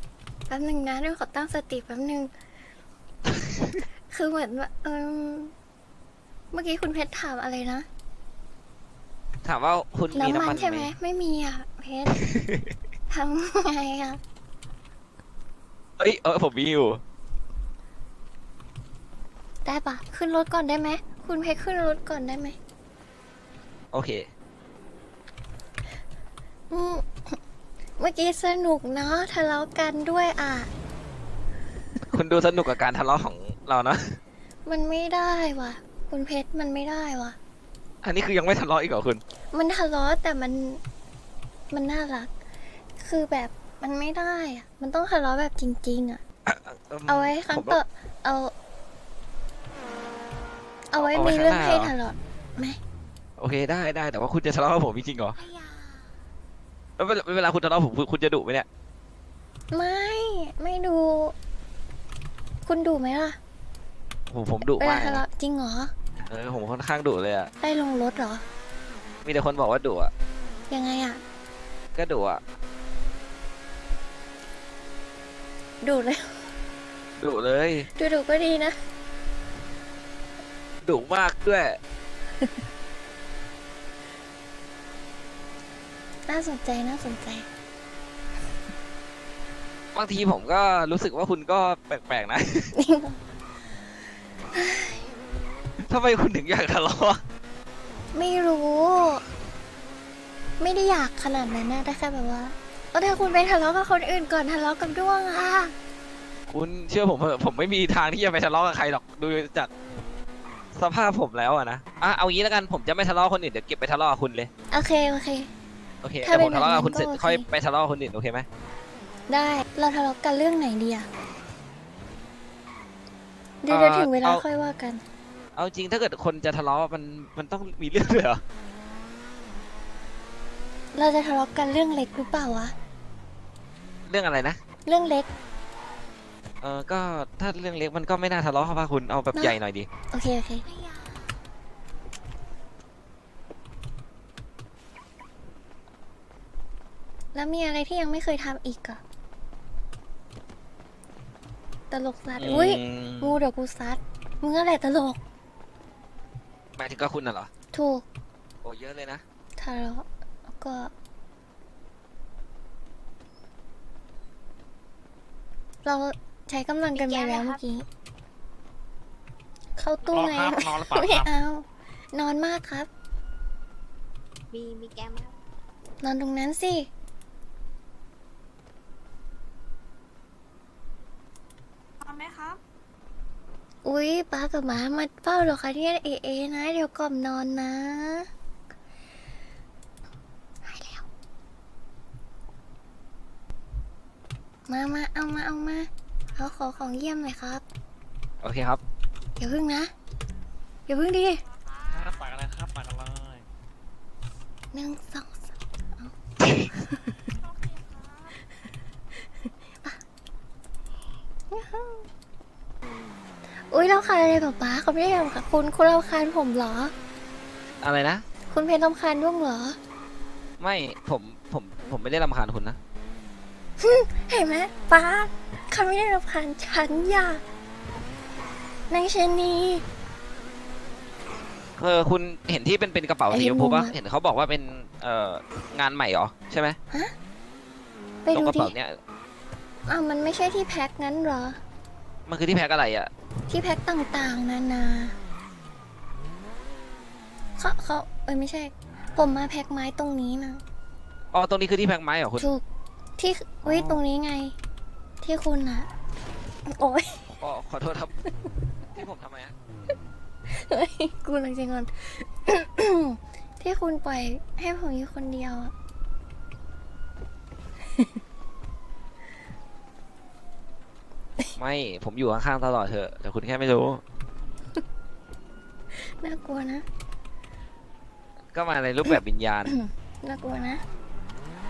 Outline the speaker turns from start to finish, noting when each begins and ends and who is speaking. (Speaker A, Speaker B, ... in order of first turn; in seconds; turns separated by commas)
Speaker A: 0.5-2.3, Speaker A: 4.1-5.5, Speaker A: 6.5-7.9, Speaker B: 9.4-10.9, Speaker A: 10.1-12.2, Speaker B: 12.2-12.7, Speaker A: 13.1-14.2, Speaker B: 16.0-17.0, Speaker A: 19.6-22.6, Speaker B: 23.9-24.3, Speaker A: 26.7-27.4, Speaker A: 28.0-30.7, Speaker B: 32.1-34.2, Speaker A: 34.6-37.4, Speaker B: 38.0-39.2, Speaker A: 39.5-40.8, Speaker A: 41.7-42.3, Speaker A: 43.0-46.2, Speaker B: 46.5-47.8, Speaker A: 47.1-48.5, Speaker A: 50.9-52.8, Speaker B: 51.0-51.9, Speaker B: 53.4-55.4, Speaker B: 57.0-58.6, Speaker A: 59.7-61.3, Speaker A: 62.6-63.4, Speaker B: 64.3-65.2, Speaker A: 64.8-65.9, Speaker B: 66.2-67.5, Speaker A: 67.6-68.4, Speaker B: 69.2-70.1, Speaker A: 70.7-71.2, Speaker B: 72.0-72.4, Speaker A: 75.8-76.5, Speaker B: 77.2-77.9, Speaker A: 77.9-78.8, Speaker B: 80.8-81.8, Speaker A: 86.3-87.5, Speaker B: 89.9-92.7, Speaker A: 92.8-93.2, Speaker A: 94.5-95.1, Speaker B: 95.8-97.2, Speaker A: 98.1-99.2, Speaker A: 100.6-105.7, Speaker B: 106.5-109.7, Speaker B: 110.7-114.5, Speaker A: 114.7-115.5, Speaker B: 116.0-118.5, Speaker A: 116.2-117.5, Speaker A: 119.3-121.1, Speaker A: 123.6-125.0, Speaker B: 123.7-124.4, Speaker B: 125.5-128.4, Speaker A: 130.9-132.7, Speaker B: 134.1-134.6, Speaker A: 134.8-135.3, Speaker B: 136.6-139.9, Speaker A: 140.1-140.7, Speaker A: 147.3-149.0, Speaker A: 151.9-155.2, Speaker B: 152.4-153.4, Speaker B: 156.8-157.5, Speaker A: 157.7-158.1, Speaker B: 158.6-159.2, Speaker A: 159.6-160.9, Speaker A: 165.8-167.8, Speaker C: 166.9-167.6, Speaker A: 169.8-172.9, Speaker D: 170.1-171.3, Speaker C: 174.5-175.4, Speaker A: 176.0-176.9, Speaker C: 182.0-182.6, Speaker A: 183.8-188.3, Speaker A: 190.6-191.1, Speaker A: 194.7-197.6, Speaker B: 198.4-198.8, Speaker A: 199.4-199.9, Speaker A: 200.9-201.4, Speaker C: 201.9-202.3, Speaker D: 201.9-203.4, Speaker A: 204.7-206.1, Speaker A: 206.6-207.2, Speaker C: 207.5-208.3, Speaker A: 211.5-212.1, Speaker A: 213.6-216.9, Speaker B: 217.8-218.2, Speaker A: 218.5-219.8, Speaker B: 220.6-222.8, Speaker A: 223.8-227.4, Speaker A: 228.9-229.8, Speaker B: 231.8-236.8, Speaker A: 233.3-233.9, Speaker A: 238.2-238.7, Speaker B: 238.3-239.0, Speaker A: 239.8-241.6, Speaker B: 242.3-243.1, Speaker A: 243.5-245.2, Speaker A: 247.6-250.6, Speaker B: 251.3-252.5, Speaker A: 252.4-252.6, Speaker A: 253.2-254.6, Speaker B: 253.7-254.0, Speaker A: 255.2-255.9, Speaker A: 256.7-257.3, Speaker B: 257.4-258.1, Speaker B: 258.9-259.6, Speaker A: 260.4-265.7, Speaker B: 271.6-274.0, Speaker A: 275.9-276.9, Speaker B: 278.5-279.8, Speaker A: 279.1-280.8